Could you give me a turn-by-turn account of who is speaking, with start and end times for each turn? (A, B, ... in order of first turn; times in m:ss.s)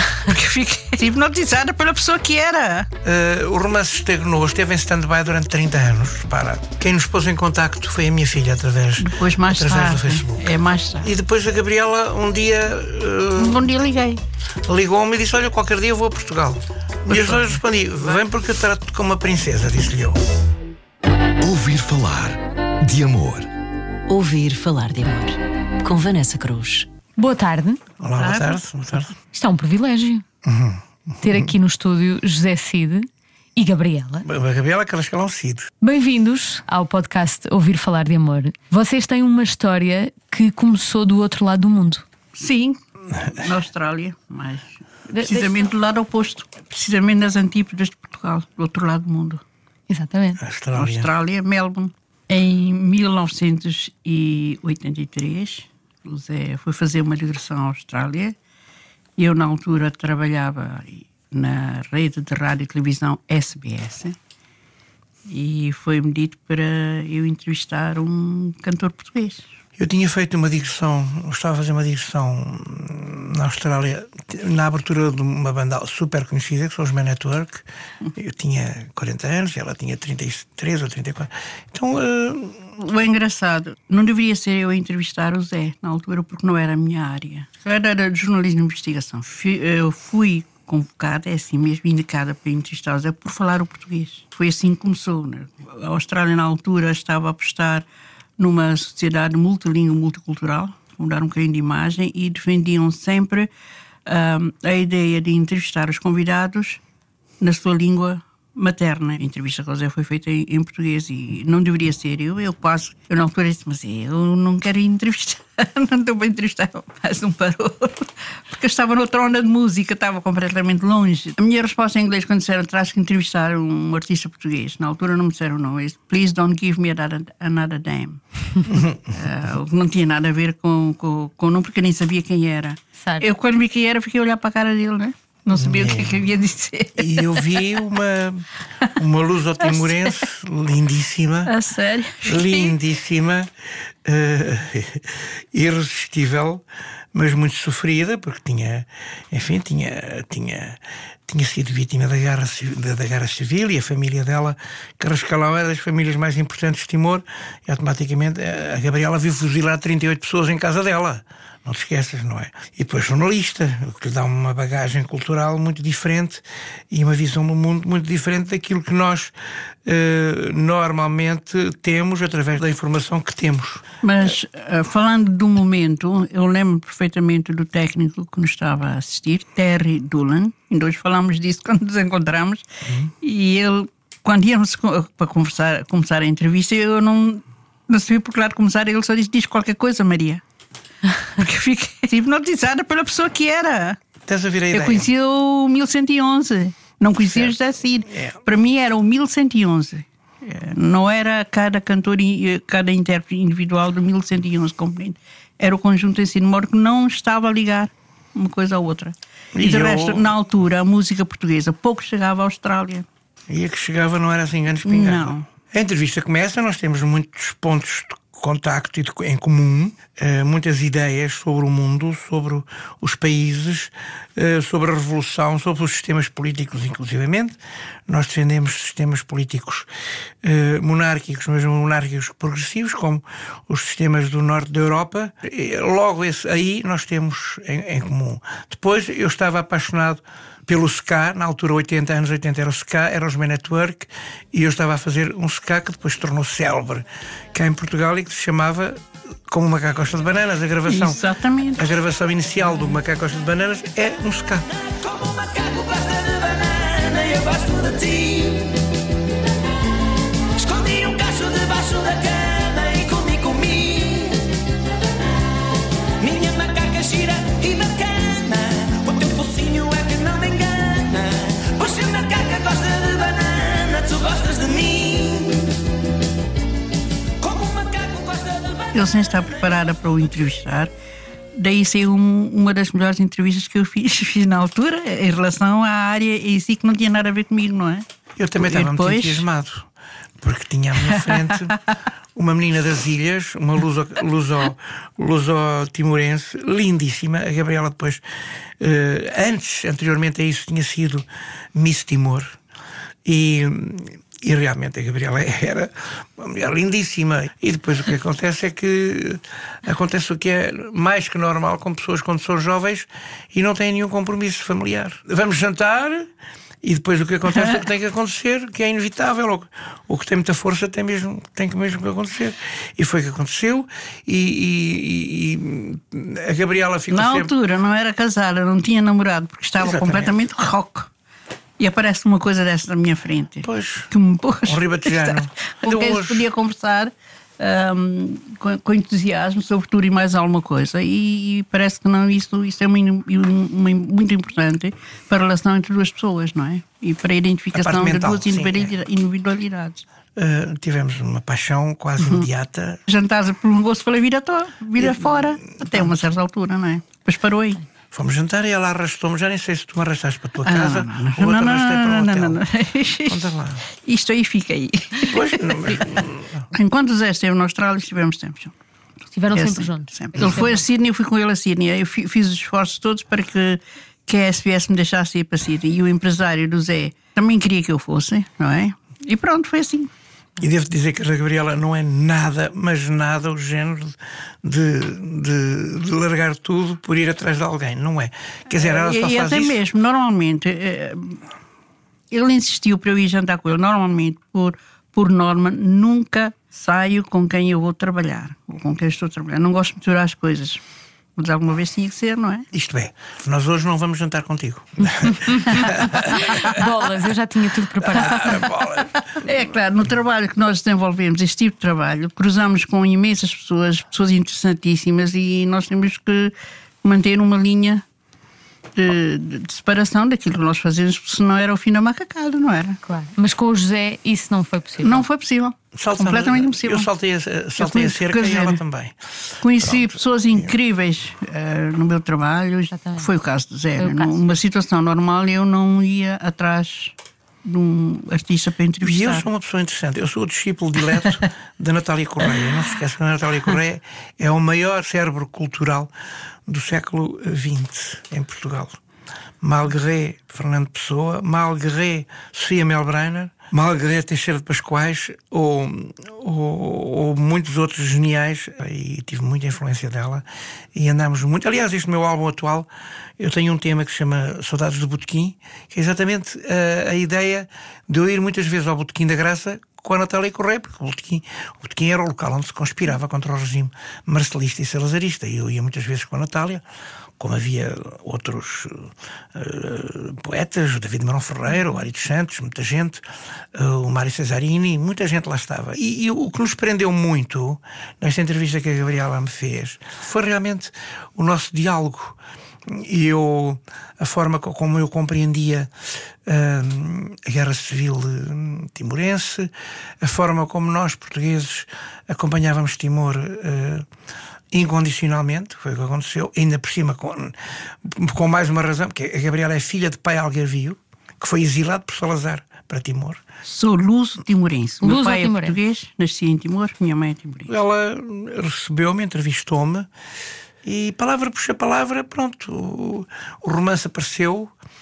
0:00.2-0:02.9 A
0:03.0-0:13.7 B
0:09.0-0:11.1 A
0:13.4-0:14.2 A
0:14.6-0:20.2 B
0:17.1-0:17.6 A
0:21.4-0:23.5 C
0:24.1-0:26.9 D
0:27.2-0:27.8 E
0:28.0-0:29.2 B
0:28.2-0:28.6 A
0:29.2-0:30.2 E
0:30.4-0:31.5 B
0:31.2-0:34.2 E
0:34.2-0:35.7 B
0:35.8-0:42.0 E
0:42.4-0:49.4 A
0:45.1-0:45.6 E
0:49.9-0:50.4 E
0:50.4-0:51.1 B
0:50.7-0:58.4 A
0:59.2-1:04.2 A
1:05.3-1:09.5 A
1:09.8-1:22.7 B
1:22.8-1:37.9 A
1:38.4-1:43.5 A
1:44.1-1:46.8 A
1:47.4-2:08.2 A
2:08.7-2:09.2 B
2:09.0-2:17.5 A
2:15.5-2:16.2 B
2:17.0-2:21.5 B
2:21.5-2:22.8 A
2:22.2-2:53.8 B
2:54.0-3:10.4 A
3:11.2-3:14.0 A
3:14.3-3:15.1 B
3:14.7-3:33.1 A
3:17.3-3:17.5 B
3:18.1-3:18.4 B
3:29.5-3:30.3 B
3:33.5-3:49.9 B
3:34.8-3:35.5 A
3:50.4-4:14.7 B
4:10.9-4:11.8 A
4:14.9-4:18.8 F
4:20.6-4:24.5 F
4:26.2-4:35.8 F
4:37.4-4:39.5 F
4:38.9-4:40.9 A
4:41.6-4:48.1 A
4:48.4-4:49.9 B
4:48.6-4:49.5 A
4:50.4-4:51.8 B
4:51.1-4:51.5 A
4:52.4-5:02.6 B
5:03.2-5:16.3 B
5:16.8-5:27.5 B
5:17.5-5:17.8 A
5:27.1-5:31.1 A
5:29.8-5:30.4 B
5:31.8-5:50.0 A
5:33.6-5:34.1 B
5:34.6-5:36.5 B
5:47.7-5:48.9 B
5:50.4-5:53.0 B
5:52.2-5:52.5 A
5:53.1-5:57.8 A
5:55.0-5:56.1 B
5:58.1-6:02.6 B
6:00.6-6:08.8 A
6:03.3-6:03.8 B
6:05.2-6:06.6 B
6:09.4-6:10.8 E
6:09.5-6:20.1 A
6:20.6-6:29.8 B
6:28.7-6:31.4 A
6:32.3-6:40.8 A
6:41.4-6:42.7 A
6:42.7-6:46.8 B
6:45.3-6:48.7 E
6:45.8-6:46.8 A
6:48.1-6:49.5 B
6:48.3-6:58.0 A
6:59.0-7:03.0 A
7:03.1-7:05.3 E
7:05.0-7:07.1 A
7:05.9-7:10.7 B
7:07.8-7:08.8 A
7:09.6-7:19.5 A
7:12.9-7:13.3 E
7:14.0-7:14.4 E
7:19.0-7:26.1 B
7:26.7-7:29.0 B
7:29.6-7:56.8 B
7:57.4-8:15.9 B
8:16.4-8:24.1 B
8:24.7-8:33.4 B
8:33.6-8:37.7 A
8:35.0-8:35.8 E
8:37.7-8:40.1 B
8:40.8-8:44.7 B